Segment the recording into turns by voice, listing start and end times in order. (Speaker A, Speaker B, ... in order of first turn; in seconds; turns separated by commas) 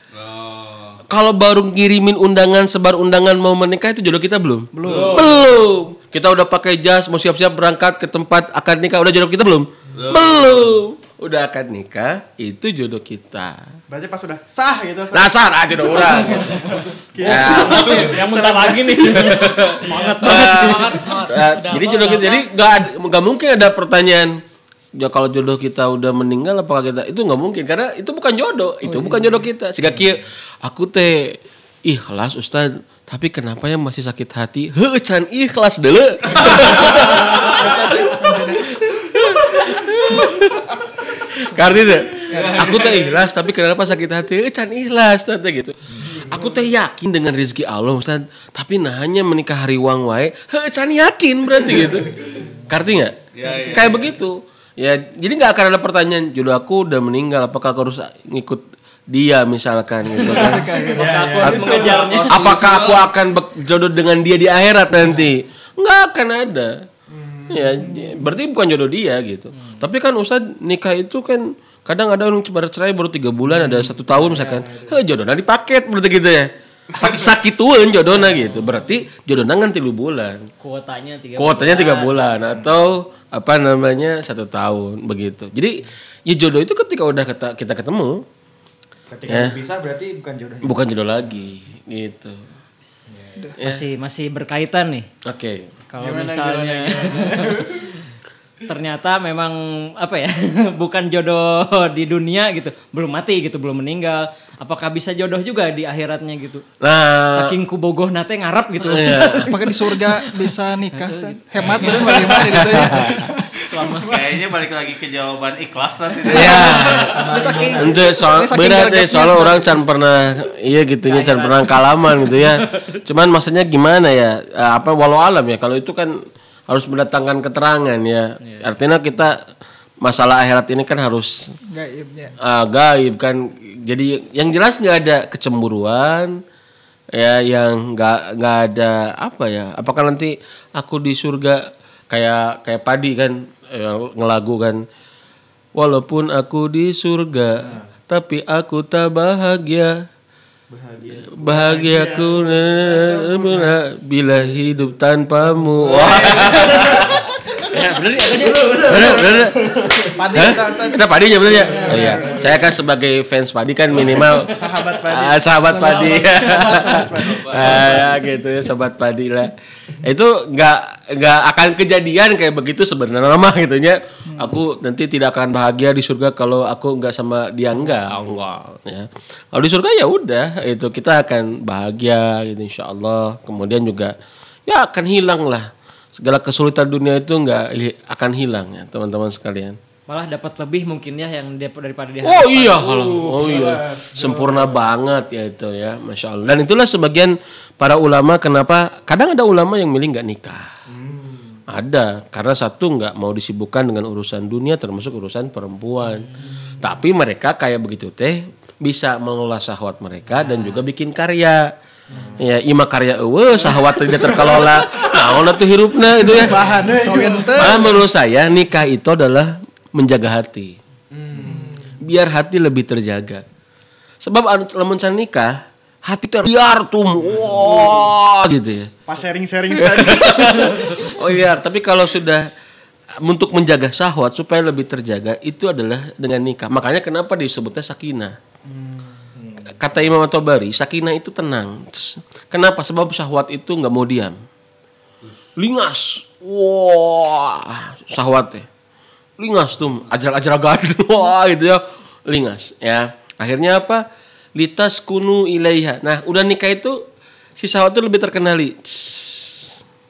Speaker A: 0.1-1.0, Speaker B: 1.1-13.6, Speaker C: 4.7-5.4, Speaker A: 4.8-5.3, Speaker A: 9.9-10.6, Speaker D: 13.9-19.5, Speaker B: 15.1-18.1, Speaker E: 17.2-21.0, Speaker B: 19.3-24.4, Speaker A: 19.9-22.4, Speaker B: 25.0-60.7, Speaker C: 28.8-29.3, Speaker C: 37.4-38.7, Speaker C: 42.3-42.9, Speaker A: 42.3-43.2, Speaker A: 53.3-54.1, Speaker C: 53.4-54.0, Speaker C: 60.2-61.3, Speaker E: 60.3-62.6, Speaker F: 61.0-61.7, Speaker B: 61.4-66.8, Speaker A: 61.4-63.1, Speaker D: 67.1-68.1, Speaker B: 67.5-80.5, Speaker E: 69.5-69.8, Speaker D: 73.5-75.0, Speaker E: 80.6-82.3, Speaker B: 81.4-88.2, Speaker F: 89.1-90.9, Speaker B: 89.3-89.5, Speaker B: 90.6-92.4, Speaker E: 93.6-95.1, Speaker B: 95.2-95.7, Speaker E: 95.9-97.9, Speaker D: 96.0-97.9, Speaker E: 98.7-106.6, Speaker B: 106.8-107.5, Speaker E: 107.3-114.3, Speaker B: 108.8-109.4, Speaker C: 109.3-113.4, Speaker A: 111.8-112.5, Speaker B: 112.4-113.3, Speaker A: 114.0-117.1, Speaker B: 116.3-117.2, Speaker F: 116.8-118.0, Speaker C: 117.2-119.8, Speaker B: 117.8-126.1, Speaker E: 121.0-121.8, Speaker B: 126.7-129.4, Speaker B: 130.0-131.4, Speaker C: 131.7-132.3, Speaker B: 132.4-136.4, Speaker B: 137.2-144.8, Speaker B: 145.8-150.0, Speaker F: 150.7-152.1, Speaker B: 151.3-184.1, Speaker D: 151.6-153.7, Speaker F: 156.2-157.0, Speaker A: 156.3-156.7, Speaker F: 158.4-159.3, Speaker D: 160.1-162.6, Speaker F: 161.7-162.3, Speaker D: 164.3-168.1, Speaker C: 166.0-166.4, Speaker A: 167.2-168.0, Speaker B: 184.7-189.8, Speaker E: 190.1-193.1, Speaker B: 192.2-200.7, Speaker D: 193.0-194.5, Speaker F: 200.9-201.6, Speaker B: 201.7-211.7, Speaker B: 212.3-216.8, Speaker D: 213.8-214.6, Speaker D: 216.2-218.0, Speaker C: 217.0-218.0, Speaker B: 217.6-220.8, Speaker D: 221.1-221.9, Speaker B: 222.0-223.4, Speaker B: 224.2-228.9, Speaker D: 229.1-231.1, Speaker B: 229.7-232.5, Speaker B: 233.2-238.3, Speaker D: 238.7-239.1, Speaker B: 239.8-244.3, Speaker B: 245.6-248.7, Speaker B: 249.4-254.0, Speaker B: 254.6-257.0, Speaker B: 257.6-259.7